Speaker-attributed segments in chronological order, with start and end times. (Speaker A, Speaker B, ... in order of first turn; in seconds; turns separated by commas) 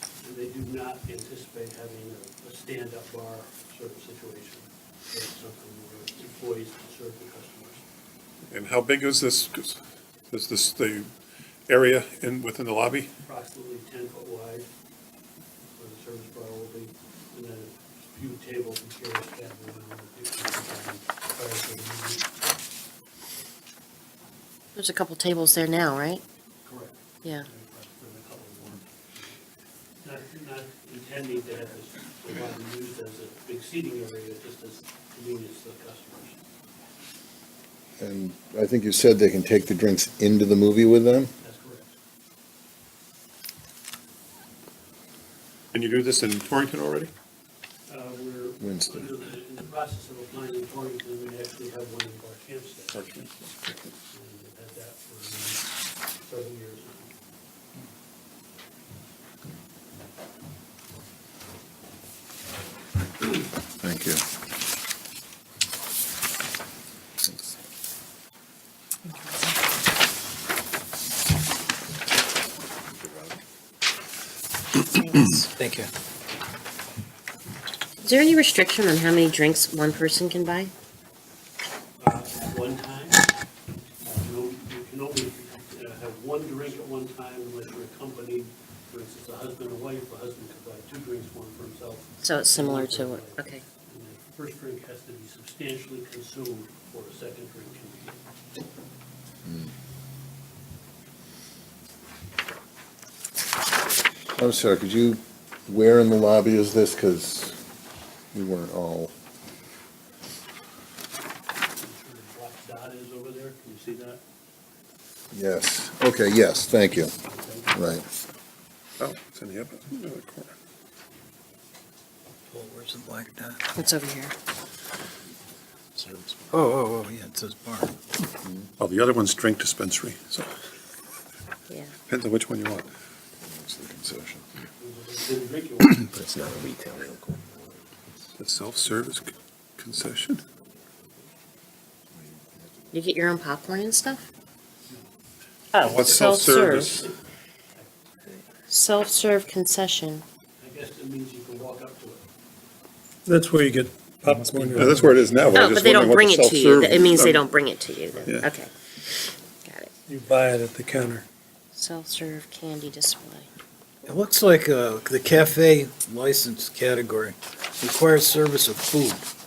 Speaker A: 0.2-7.8, Speaker B: 8.5-11.1, Speaker B: 11.7-13.1, Speaker A: 13.2-14.7, Speaker A: 15.8-22.3, Speaker C: 24.8-26.2, Speaker A: 26.6-29.4, Speaker A: 30.0-36.4, Speaker D: 38.0-41.3, Speaker A: 41.4-41.9, Speaker B: 45.7-47.1, Speaker A: 47.9-53.0, Speaker D: 48.6-49.1, Speaker B: 52.9-53.9, Speaker A: 54.1-55.6, Speaker A: 56.2-57.1, Speaker D: 63.8-64.2, Speaker D: 73.0-73.3, Speaker C: 74.8-75.5, Speaker E: 75.6-75.9, Speaker C: 78.0-80.7, Speaker A: 82.0-83.3, Speaker A: 84.0-98.2, Speaker C: 92.2-93.6, Speaker D: 99.5-99.7, Speaker D: 104.4-107.6, Speaker D: 108.3-109.1, Speaker A: 111.8-114.2, Speaker D: 115.3-117.2, Speaker A: 117.2-118.0, Speaker D: 117.7-118.0, Speaker B: 119.0-120.5, Speaker E: 122.5-123.6, Speaker C: 123.8-124.3, Speaker D: 126.0-126.5, Speaker E: 126.5-128.0, Speaker D: 128.4-128.7, Speaker B: 128.8-130.5, Speaker B: 132.1-132.9, Speaker D: 133.4-134.4, Speaker A: 134.8-136.0, Speaker D: 136.0-137.6, Speaker B: 138.4-140.4, Speaker D: 142.2-143.0, Speaker C: 142.9-144.2, Speaker A: 144.9-145.1, Speaker C: 145.7-147.0, Speaker B: 145.8-147.1, Speaker C: 148.7-150.2, Speaker A: 150.6-152.3, Speaker F: 153.3-155.4, Speaker B: 154.5-157.5, Speaker C: 155.5-158.7, Speaker B: 158.3-158.5, Speaker C: 159.7-159.9, Speaker F: 160.1-161.2, Speaker C: 161.7-163.5, Speaker E: 164.1-169.3